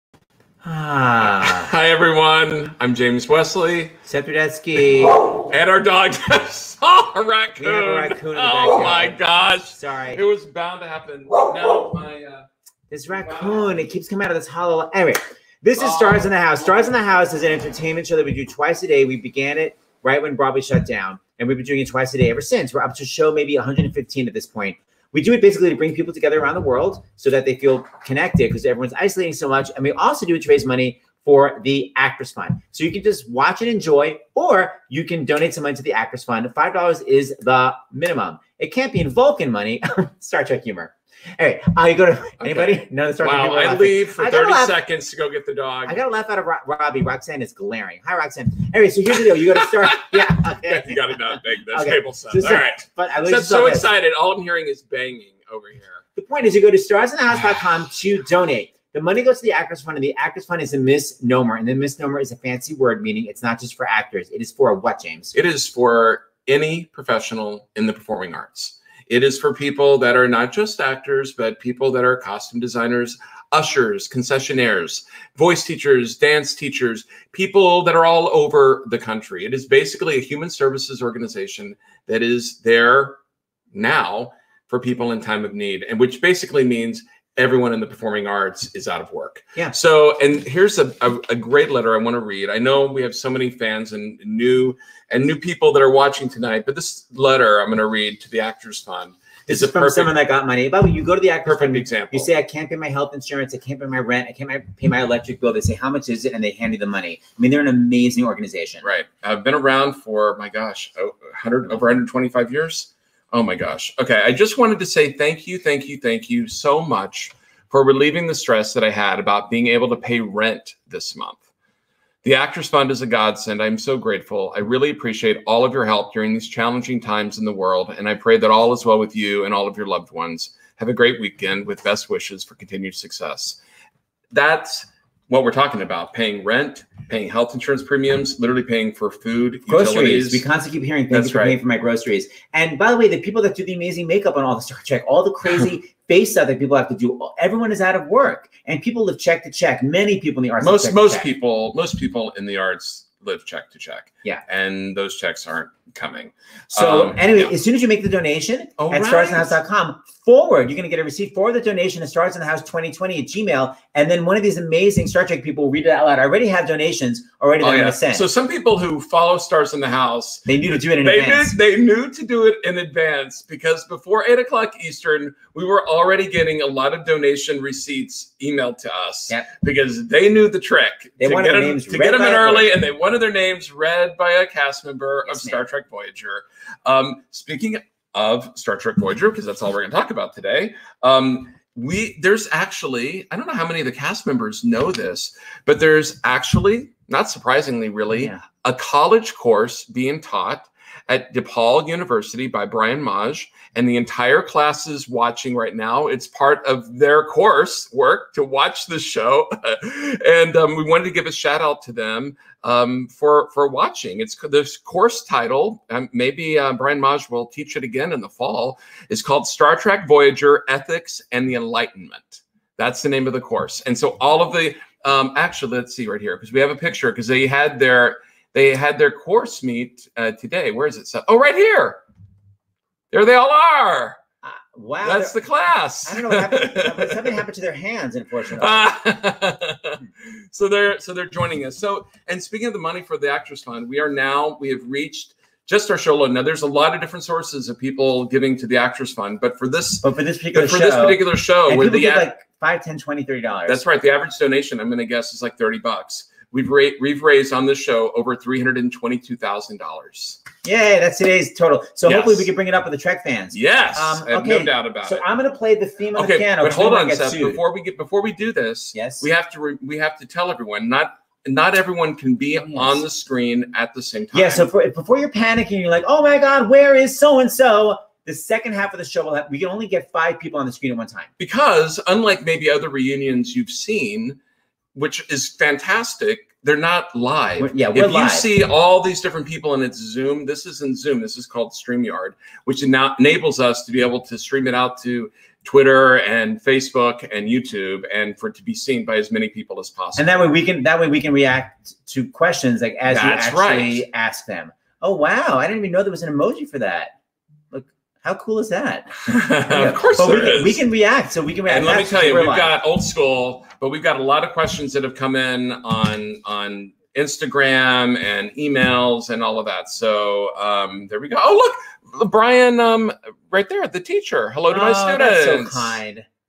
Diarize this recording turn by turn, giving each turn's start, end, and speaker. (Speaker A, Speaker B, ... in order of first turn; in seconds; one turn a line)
Speaker A: 0.6-1.7
Speaker B: 1.2-3.9
Speaker A: 4.0-5.2
Speaker B: 5.5-12.4
Speaker A: 7.6-10.2
Speaker A: 12.9-44.7
Speaker B: 15.8-16.3
Speaker B: 42.4-46.0
Speaker A: 45.9-53.9
Speaker B: 49.8-56.0
Speaker A: 56.1-65.3
Speaker B: 65.3-83.2
Speaker B: 83.7-100.1
Speaker A: 99.5-108.8
Speaker B: 101.4-102.3
Speaker B: 108.8-121.4
Speaker B: 122.2-133.6
Speaker B: 134.3-140.4
Speaker A: 139.7-151.3
Speaker B: 141.1-141.6
Speaker B: 150.6-157.5
Speaker A: 156.7-168.2
Speaker B: 158.8-159.6
Speaker B: 167.6-232.0
Speaker A: 170.4-171.5
Speaker A: 181.2-182.7
Speaker A: 185.2-185.6
Speaker A: 198.1-198.4
Speaker B: 233.1-234.2
Speaker A: 234.4-235.4
Speaker B: 235.0-237.4
Speaker A: 236.1-238.8
Speaker B: 238.6-252.3
Speaker A: 250.0-253.8
Speaker B: 253.7-260.4
Speaker A: 260.6-267.6
Speaker B: 262.0-262.5
Speaker B: 263.5-265.3
Speaker B: 266.1-274.7
Speaker A: 268.9-269.3
Speaker A: 272.6-273.0
Speaker A: 274.3-281.3
Speaker B: 281.4-284.4
Speaker B: 284.9-300.5
Speaker A: 287.6-288.5
Speaker A: 300.1-307.1
Speaker B: 303.1-304.1
Speaker A: 307.7-309.2
Speaker B: 309.3-310.8
Speaker A: 309.7-312.7
Speaker B: 311.6-326.0
Speaker A: 324.7-326.2